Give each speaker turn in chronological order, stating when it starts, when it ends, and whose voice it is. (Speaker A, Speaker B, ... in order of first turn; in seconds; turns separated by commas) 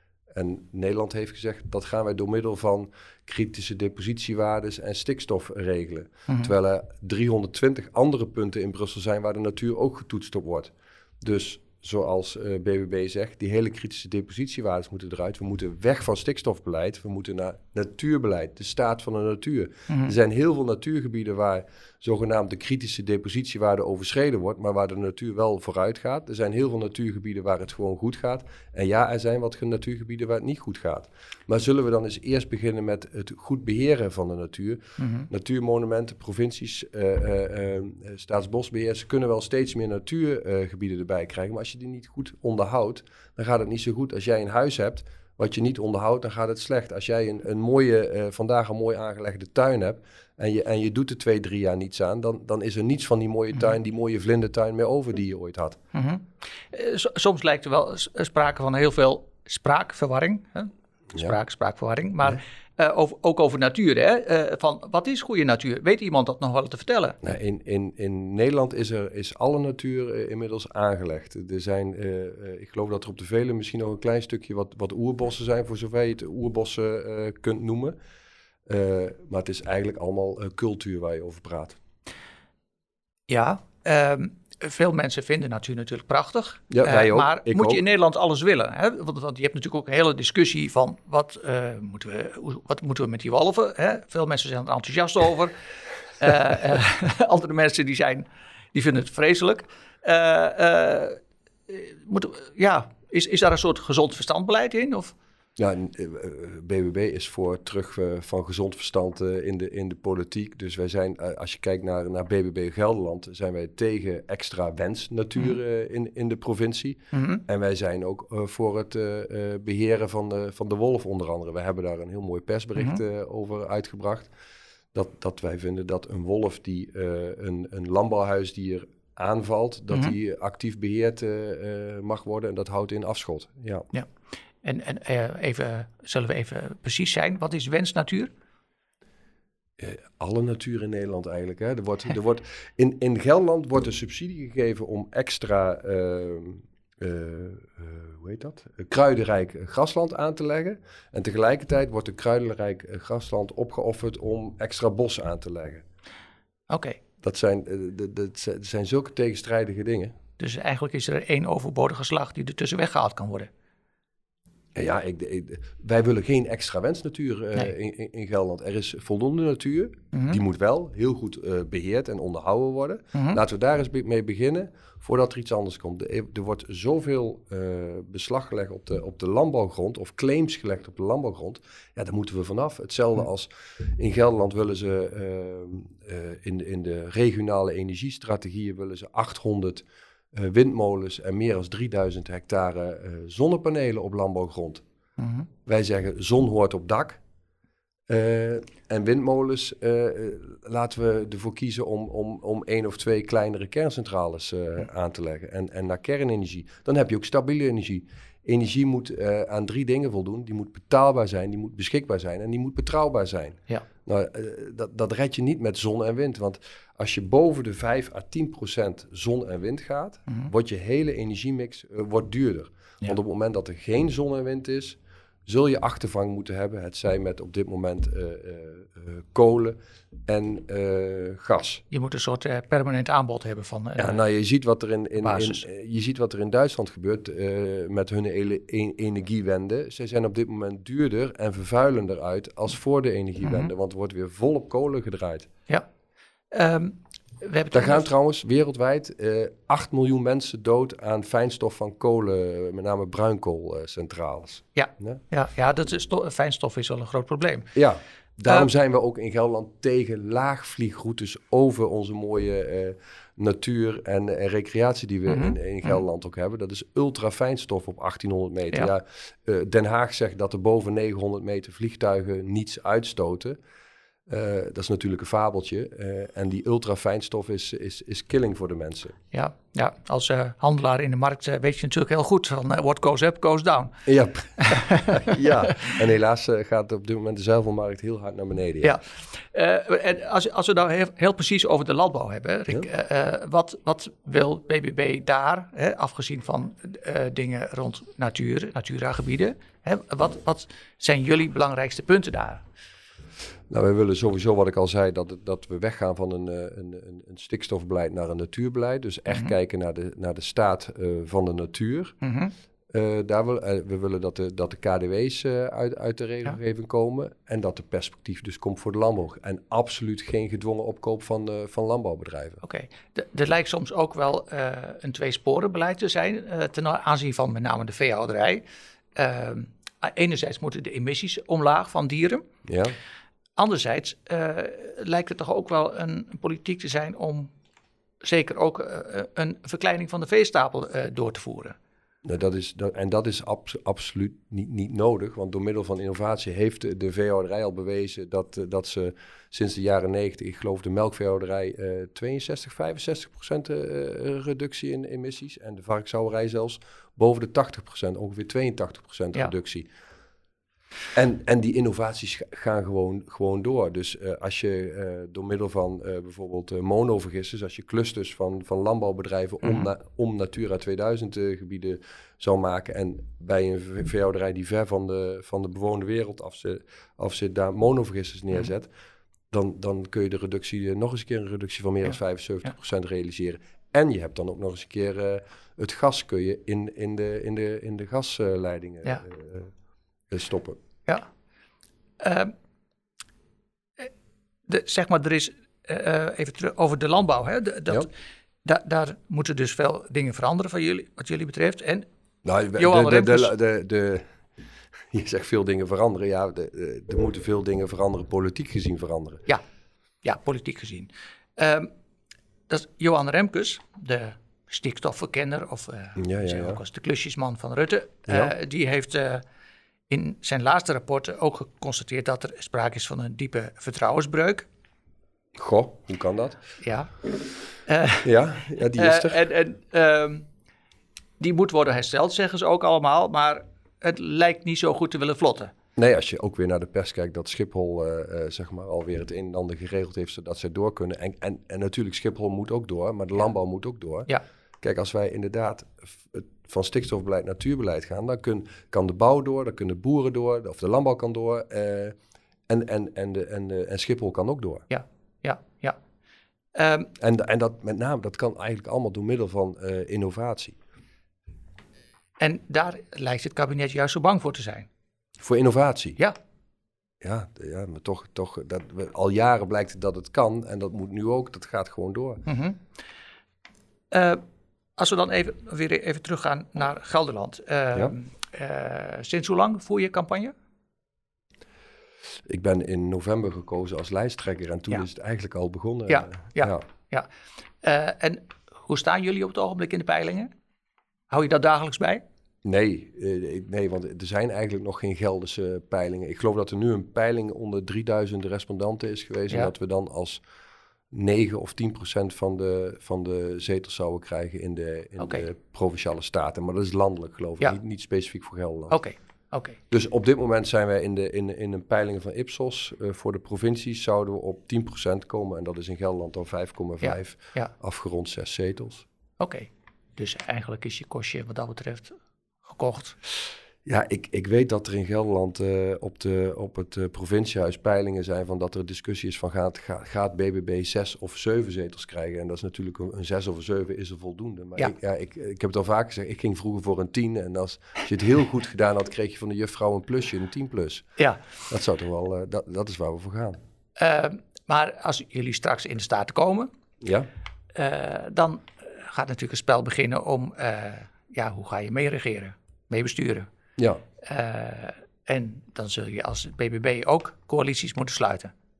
Speaker A: 0.3-55.8, Speaker B: 19.9-20.1, Speaker B: 35.0-35.3, Speaker B: 55.9-67.2, Speaker A: 67.2-78.0, Speaker A: 78.7-81.8, Speaker B: 83.3-95.6, Speaker A: 86.7-87.8, Speaker B: 96.2-105.2, Speaker A: 105.6-124.3, Speaker B: 117.1-117.4, Speaker A: 124.9-133.9, Speaker B: 134.6-138.3, Speaker A: 139.8-155.8, Speaker B: 156.7-157.0, Speaker A: 157.2-160.2, Speaker B: 160.4-163.5, Speaker A: 164.8-194.8, Speaker B: 170.1-170.4, Speaker B: 173.1-173.4, Speaker B: 195.2-195.5, Speaker A: 195.7-197.2, Speaker A: 198.1-231.8, Speaker B: 231.9-234.2, Speaker A: 234.0-245.5, Speaker B: 235.2-235.7, Speaker B: 243.4-243.7, Speaker B: 246.5-248.1, Speaker A: 247.7-255.2, Speaker B: 254.8-257.7, Speaker A: 257.8-273.6, Speaker B: 265.3-265.6, Speaker A: 274.3-279.2, Speaker B: 279.3-284.0, Speaker A: 284.1-289.0, Speaker B: 284.6-285.3, Speaker B: 288.8-302.6, Speaker A: 303.7-312.2, Speaker B: 312.2-312.5, Speaker A: 312.9-322.6, Speaker B: 322.6-328.6, Speaker B: 329.2-332.5, Speaker A: 332.7-332.9, Speaker B: 333.6-337.5, Speaker B: 338.2-341.8, Speaker A: 342.2-359.9, Speaker A: 361.1-378.9, Speaker A: 379.5-389.7, Speaker A: 390.3-390.8, Speaker B: 392.2-392.5, Speaker B: 394.7-398.1, Speaker B: 398.6-402.1, Speaker A: 402.4-404.3, Speaker B: 402.8-403.5, Speaker A: 405.1-409.5, Speaker B: 410.2-411.9, Speaker B: 412.7-419.4, Speaker A: 416.2-416.8, Speaker A: 418.3-418.5, Speaker B: 420.1-424.7, Speaker A: 425.6-426.6, Speaker B: 426.8-427.2, Speaker B: 427.9-428.3, Speaker A: 428.2-429.4, Speaker B: 428.9-430.5, Speaker B: 431.4-435.7, Speaker A: 436.0-444.3, Speaker A: 444.8-452.2, Speaker A: 452.7-454.9, Speaker B: 454.9-456.0, Speaker B: 456.8-457.1, Speaker A: 457.2-460.8, Speaker B: 462.4-464.9, Speaker A: 465.4-466.2, Speaker A: 467.2-472.4, Speaker B: 472.5-472.8, Speaker B: 474.1-474.4, Speaker B: 475.0-480.5, Speaker A: 482.5-486.8, Speaker B: 486.1-487.3, Speaker B: 487.8-490.5, Speaker B: 491.3-492.2, Speaker A: 492.6-500.4, Speaker A: 501.1-509.0, Speaker B: 505.2-505.4, Speaker B: 508.9-509.8, Speaker A: 509.9-519.0, Speaker B: 517.0-517.7, Speaker B: 519.4-523.2, Speaker A: 523.9-541.1, Speaker A: 541.7-543.6, Speaker B: 544.0-546.7, Speaker A: 547.0-547.3, Speaker B: 547.8-553.5, Speaker B: 554.2-558.5